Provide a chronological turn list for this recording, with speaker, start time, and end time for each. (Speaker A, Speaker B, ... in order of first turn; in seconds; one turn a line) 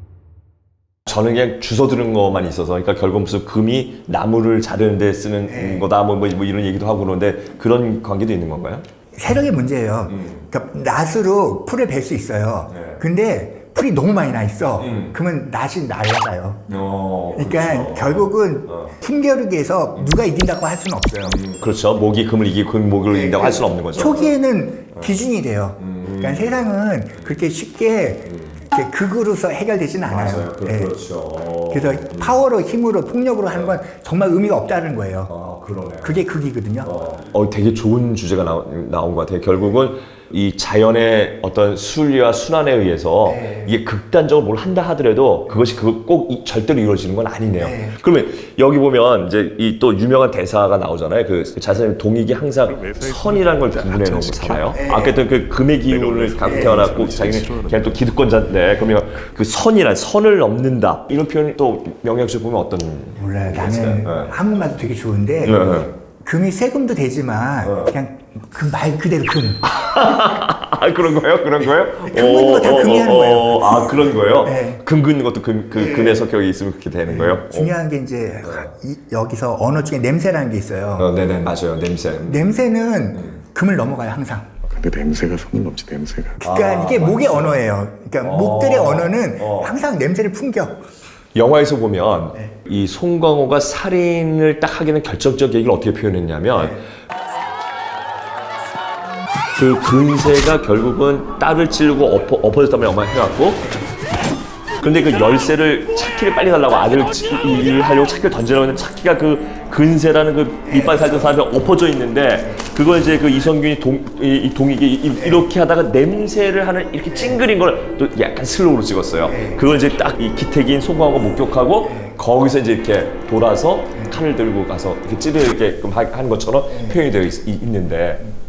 Speaker A: 1.1-8.8
Speaker B: 5.5-5.8
Speaker B: 9.1-16.7
Speaker A: 10.1-10.4
Speaker A: 12.7-13.0
Speaker A: 14.8-15.1
Speaker A: 16.7-18.9
Speaker B: 17.3-21.4
Speaker A: 21.2-24.3
Speaker B: 23.1-30.9
Speaker A: 25.8-26.6
Speaker A: 28.3-28.6
Speaker A: 30.0-32.4
Speaker B: 31.7-35.3
Speaker A: 35.3-36.2
Speaker B: 36.0-36.9
Speaker A: 36.8-64.3
Speaker B: 43.2-43.7
Speaker B: 47.6-48.0
Speaker C: 52.7-54.9
Speaker B: 54.7-55.2
Speaker C: 55.8-58.0
Speaker B: 56.4-56.8
Speaker B: 63.2-69.7
Speaker A: 65.4-65.9
Speaker A: 67.6-67.9
Speaker A: 69.6-77.7
Speaker B: 72.0-74.8
Speaker B: 75.8-76.2
Speaker B: 77.1-81.1
Speaker A: 78.4-78.7
Speaker A: 81.0-82.5
Speaker B: 82.2-84.5
Speaker C: 84.7-86.4
Speaker B: 86.4-90.8
Speaker A: 86.4-87.6
Speaker A: 88.2-89.8
Speaker A: 91.3-96.8
Speaker B: 96.5-96.8
Speaker A: 99.5-103.8
Speaker A: 104.8-128.2
Speaker B: 110.7-111.3
Speaker B: 115.2-115.4
Speaker B: 117.1-117.4
Speaker B: 119.3-119.6
Speaker B: 121.8-122.2
Speaker B: 126.7-127.0